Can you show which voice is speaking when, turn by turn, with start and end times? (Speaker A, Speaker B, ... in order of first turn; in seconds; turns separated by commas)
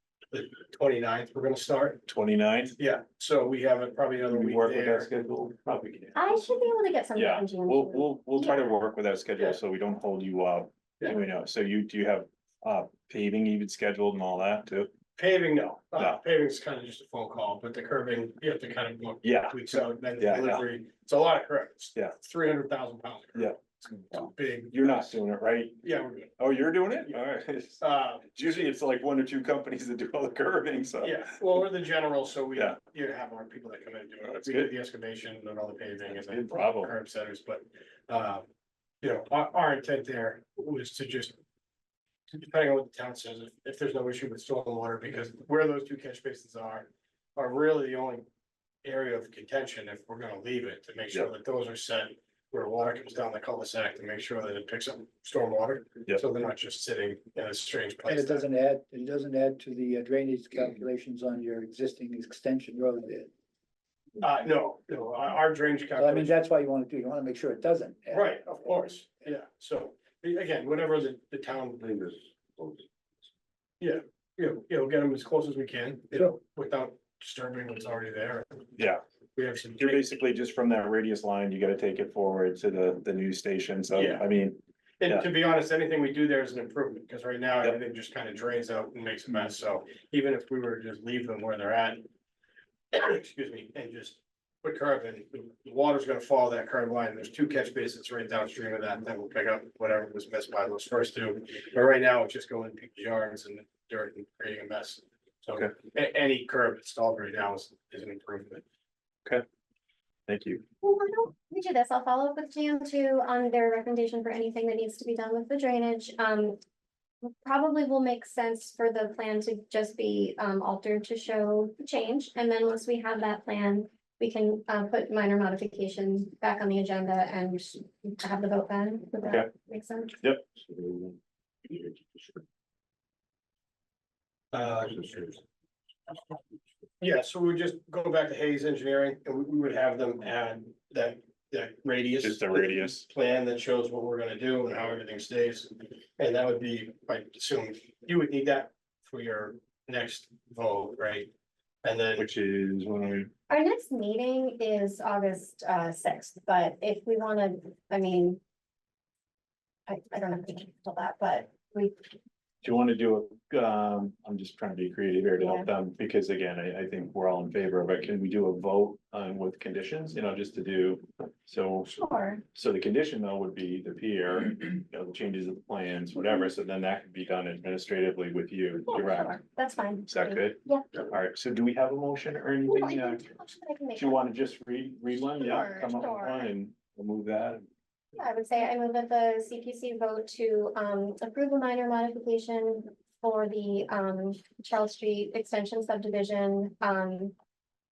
Speaker A: 0.3-2.0, Speaker B: 2.1-2.8, Speaker A: 2.8-5.1, Speaker B: 4.3-6.4, Speaker C: 6.2-8.7, Speaker B: 7.2-14.9, Speaker A: 15.2-25.2, Speaker B: 19.2-19.6, Speaker B: 20.2-20.6, Speaker B: 23.4-25.8, Speaker A: 25.8-26.4, Speaker B: 26.4-31.3, Speaker A: 27.8-28.3, Speaker A: 31.0-38.5, Speaker B: 34.3-34.7, Speaker B: 36.1-36.9, Speaker A: 39.0-41.4, Speaker A: 42.3-48.2, Speaker A: 48.8-58.5, Speaker D: 58.1-63.3, Speaker A: 64.2-66.3, Speaker D: 66.0-68.7, Speaker A: 68.1-72.3, Speaker A: 73.8-78.6, Speaker B: 78.8-79.0, Speaker A: 79.4-80.1, Speaker B: 79.8-85.3, Speaker A: 84.0-84.2, Speaker A: 85.0-92.1, Speaker A: 92.9-108.6, Speaker B: 110.3-110.6, Speaker C: 110.8-116.6, Speaker C: 117.2-130.2, Speaker B: 129.2-129.5, Speaker B: 130.2-131.1, Speaker A: 134.5-135.3, Speaker A: 137.0-151.3, Speaker B: 142.2-143.1, Speaker A: 151.8-152.2, Speaker B: 152.2-153.3, Speaker C: 153.5-158.4, Speaker C: 159.9-162.1, Speaker B: 162.6-171.9, Speaker C: 165.4-165.7, Speaker C: 171.8-172.4, Speaker B: 172.5-179.4, Speaker C: 178.9-180.9, Speaker B: 180.1-183.2, Speaker C: 182.7-184.2, Speaker B: 184.0-187.7, Speaker C: 185.4-186.5, Speaker C: 188.2-197.3